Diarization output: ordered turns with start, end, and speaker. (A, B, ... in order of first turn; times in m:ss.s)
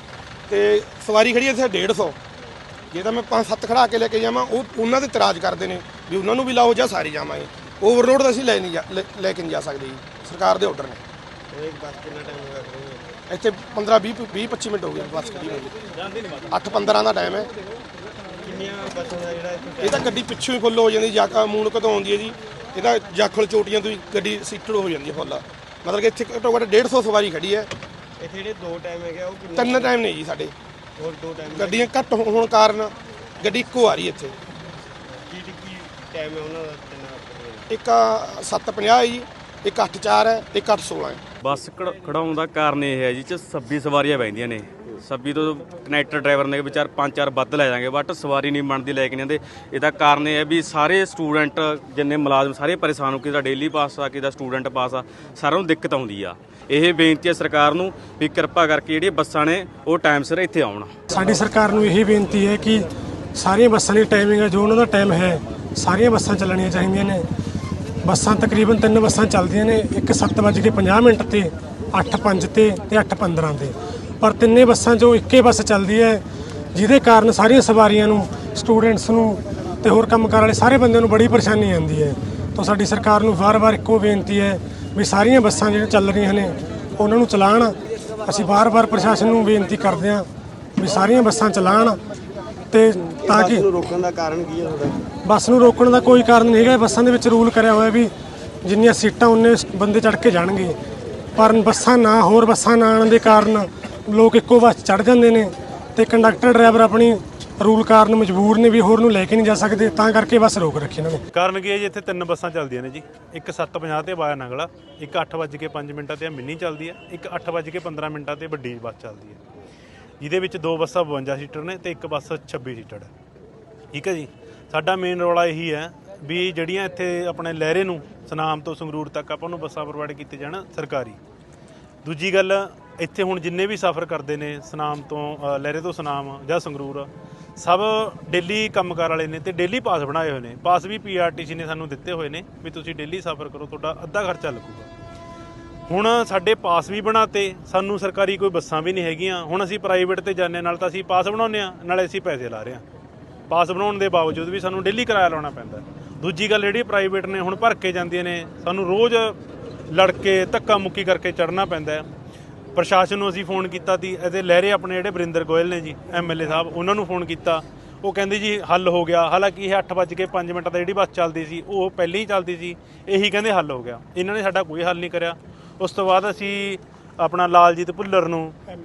0:00.5-0:02.2 A
0:02.9-0:11.0 A
0:11.5-0:13.1 B
0:13.3-0:15.7 A
0:16.5-0:17.5 A
0:18.4-0:20.2 B
0:19.8-0:27.7 A
0:28.2-0:30.0 B
0:29.5-0:30.5 A
0:31.0-0:31.9 B
0:31.5-0:34.3 A
0:35.2-0:37.7 B
0:37.7-0:41.2 A
0:41.4-1:00.9 C
1:01.1-1:07.3 D
1:08.0-1:16.2 D
1:16.7-1:32.0 D
1:32.7-1:33.7 D
1:33.2-1:35.1 B
1:35.2-1:38.1 D
1:38.6-1:40.8 D
1:41.3-1:51.2 D
1:51.3-1:59.4 E
2:00.2-2:03.1 E
2:03.9-2:11.2 E
2:12.0-2:24.9 E
2:25.9-2:32.8 E
2:33.5-2:39.4 E
2:39.9-2:42.1 E
2:42.7-2:58.6 E